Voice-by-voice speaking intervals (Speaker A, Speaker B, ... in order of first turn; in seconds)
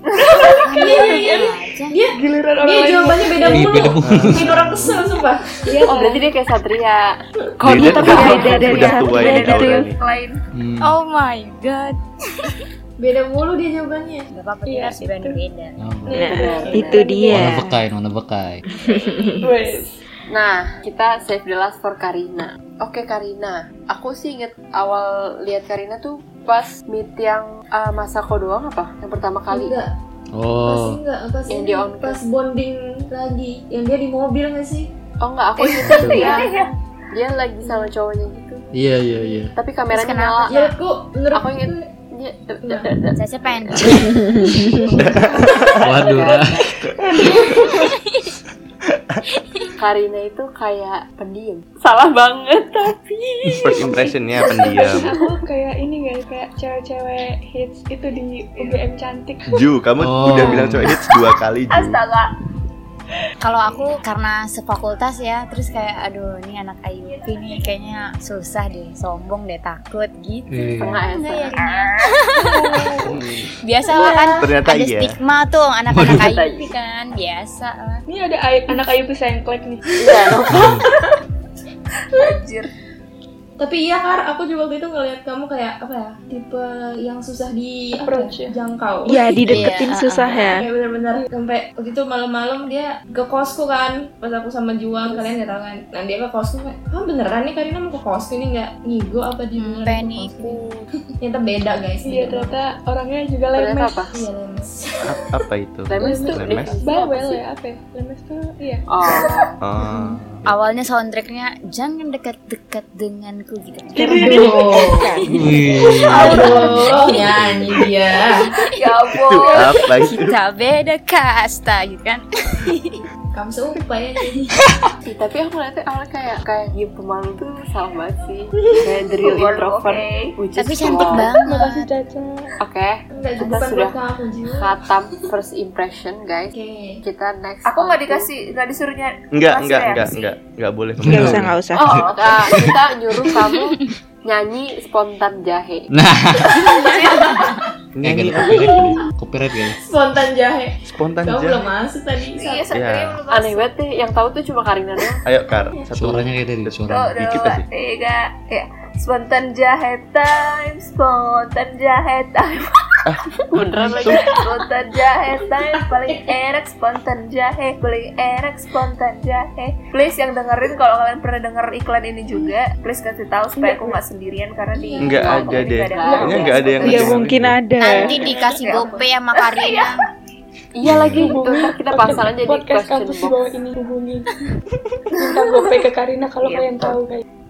Speaker A: 0.5-5.5, 13.0-14.3, 29.5-29.9, 30.6-34.9, 35.6-36.4, 40.5-41.9, 42.6-42.9, 47.1-47.7, 73.9-74.5, 83.6-89.4, 90.6-100.6, 101.2-102.6, 104.1-105.1, 109.8-110.2, 114.1-115.1, 116.1-118.5, 123.3-124.5, 133.1-134.7, 136.5-137.0, 146.7-147.7, 149.8-150.7, 151.3-152.7, 174.7-175.2
Speaker B: 0.6-2.0, 10.8-12.6, 14.3-15.8, 19.1-19.5, 39.9-40.8, 43.1-44.5, 48.1-48.3, 63.4-73.0, 73.6-78.0, 89.5-90.5, 99.6-100.8, 110.5-114.6, 116.7-117.1, 120.0-123.0, 130.6-131.9, 177.8-180.0
Speaker C: 0.8-1.2, 2.1-3.8, 5.7-6.3, 14.7-15.4, 16.1-17.5, 19.4-20.0, 54.6-59.6, 72.5-73.0, 78.1-79.8, 88.0-88.6, 102.0-104.0, 106.0-108.8, 114.0-114.9, 131.2-132.6, 173.6-174.0, 178.4-178.8, 181.2-184.3, 185.1-187.2
Speaker D: 3.5-5.0, 10.5-11.0, 15.8-16.3, 17.3-18.6, 30.3-31.0, 35.8-36.3, 38.7-39.5, 45.8-46.7, 60.0-61.0, 70.5-71.0, 75.9-76.3, 80.5-80.8, 115.3-117.8, 141.0-142.8, 145.9-146.9, 148.0-149.8, 155.9-157.2, 180.9-181.3
Speaker E: 4.0-5.0, 7.6-10.0, 44.9-46.0, 53.6-55.1, 59.5-62.0, 73.1-73.5, 74.4-75.2, 105.0-106.7, 109.6-110.5, 119.2-120.4, 139.3-141.5, 148.0-149.1, 150.9-151.7, 152.7-153.2, 155.2-157.7, 175.0-177.6, 180.9-181.1
Speaker F: 5.9-8.9, 16.2-17.1, 20.3-29.8, 31.5-32.2, 35.2-36.5, 37.1-38.7, 39.5-40.5, 41.3-44.5, 45.9-46.7, 49.8-54.0, 70.8-71.6, 76.0-76.7, 80.0-80.8, 103.5-104.1, 105.9-107.4, 108.9-109.4, 125.0-131.3, 132.6-134.0, 134.6-138.3, 141.7-145.9, 153.3-155.2, 163.5-164.3, 175.1-177.1, 178.0-178.3, 180.8-183.5, 186.4-187.0
Speaker G: 7.7-9.9, 16.1-17.8, 18.7-19.4, 89.1-90.7, 114.8-115.7, 141.1-142.0, 176.8-178.3
Speaker H: 8.0-10.4, 35.8-36.7, 58.1-58.9, 61.7-62.3, 67.1-67.6, 71.5-72.1, 82.1-82.7, 118.7-119.9, 129.2-130.3, 137.7-140.3, 146.8-147.2, 152.4-153.7, 156.9-163.0, 164.0-177.2, 178.3-179.9